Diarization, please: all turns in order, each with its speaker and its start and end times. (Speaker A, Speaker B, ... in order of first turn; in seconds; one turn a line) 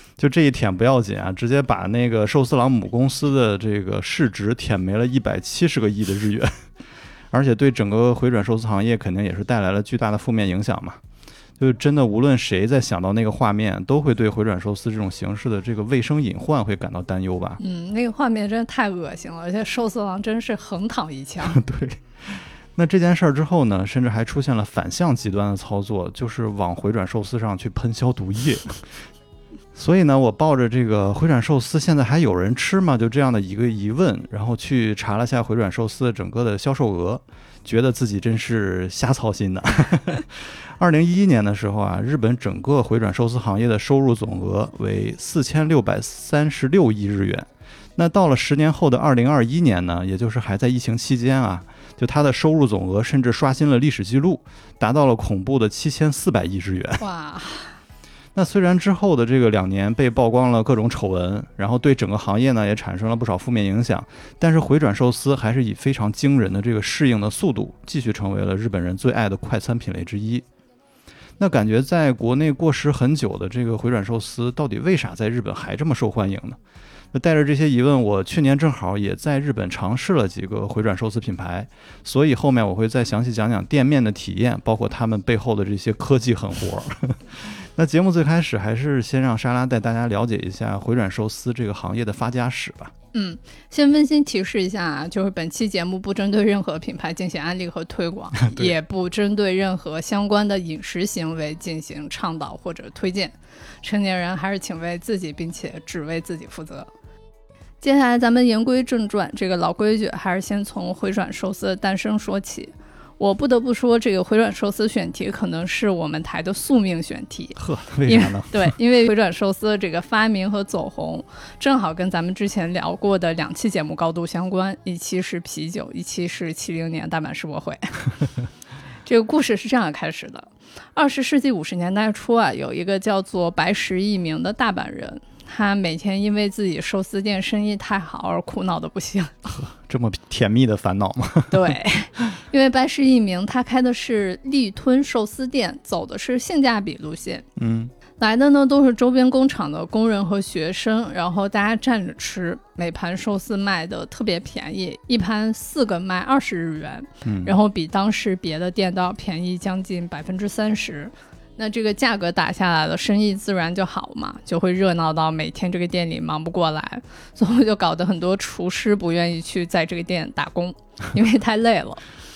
Speaker A: 0.2-6.5
Speaker A: 7.3-11.0
Speaker A: 11.6-17.6
Speaker B: 17.6-21.6
Speaker A: 21.4-28.9
Speaker A: 29.7-57.0
Speaker B: 57.0-57.8
Speaker A: 58.3-70.4
Speaker A: 71.4-76.6
Speaker A: 77.1-92.9
Speaker B: 93.1-106.9
Speaker A: 98.4-98.7
Speaker B: 107.8-127.9
Speaker A: 117.5-118.7
Speaker B: 129.1-139.3
Speaker A: 139.5-141.7
Speaker B: 141.5-147.4
Speaker A: 147.6-147.9
Speaker B: 148.2-172.0
Speaker A: 157.2-157.5